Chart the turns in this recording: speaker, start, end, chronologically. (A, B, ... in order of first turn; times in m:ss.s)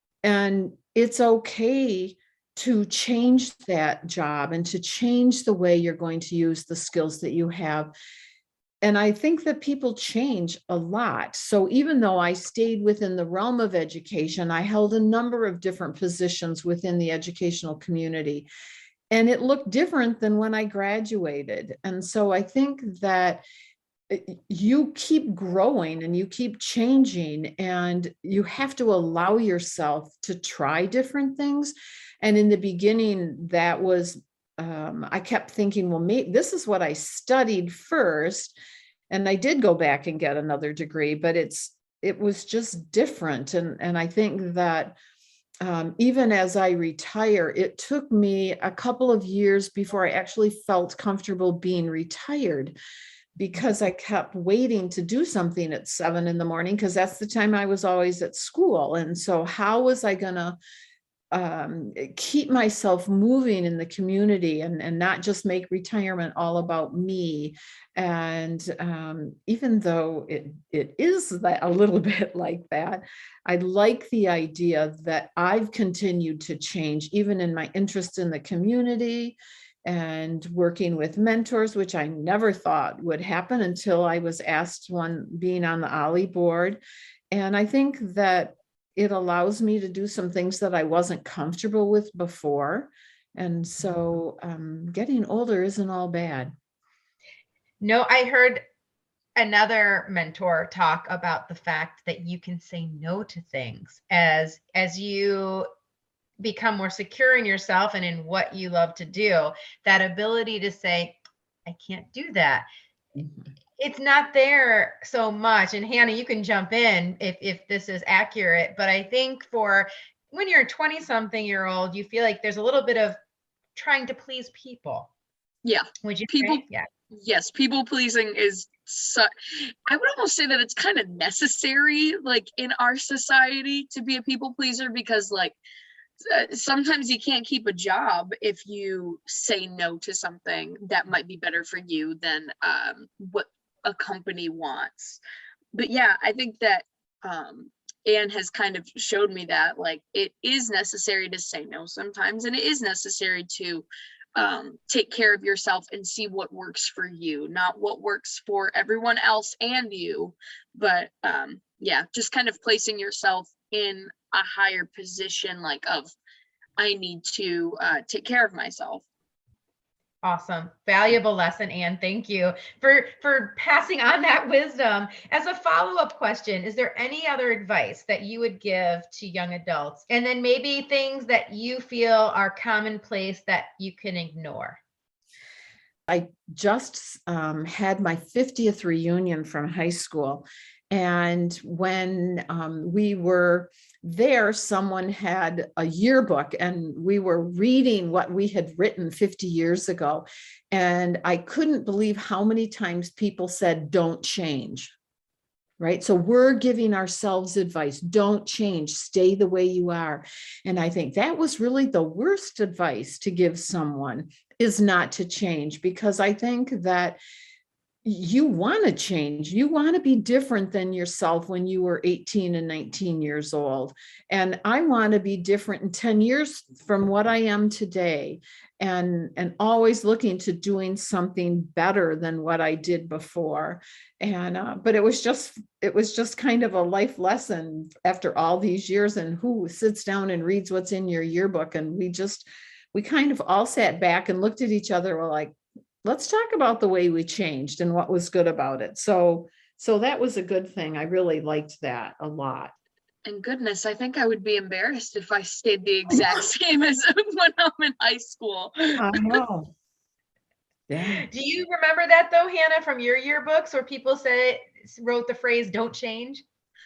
0:00.2-0:07.9 A
0:08.8-0:18.5 A
0:19.1-0:23.4 A
0:24.1-0:38.5 A
0:39.1-0:45.0 A
0:45.6-0:52.8 A
0:53.4-1:00.6 A
1:01.3-1:26.8 A
1:27.3-1:36.5 A
1:37.8-1:38.6 B
1:39.4-1:45.7 B
1:46.4-1:52.7 B
1:53.8-2:03.2 B
2:03.8-2:05.1 B
2:05.6-2:15.6 C
2:06.0-2:06.9 B
2:16.3-2:25.2 C
2:25.7-2:46.1 C
2:46.8-2:49.0 C
2:50.2-3:04.8 B
3:06.1-3:24.9 A
3:25.8-3:37.2 A
3:38.0-4:12.7 A
4:13.2-4:19.4 C
4:19.0-4:19.7 A
4:20.9-4:21.3 A
4:21.1-4:26.4 B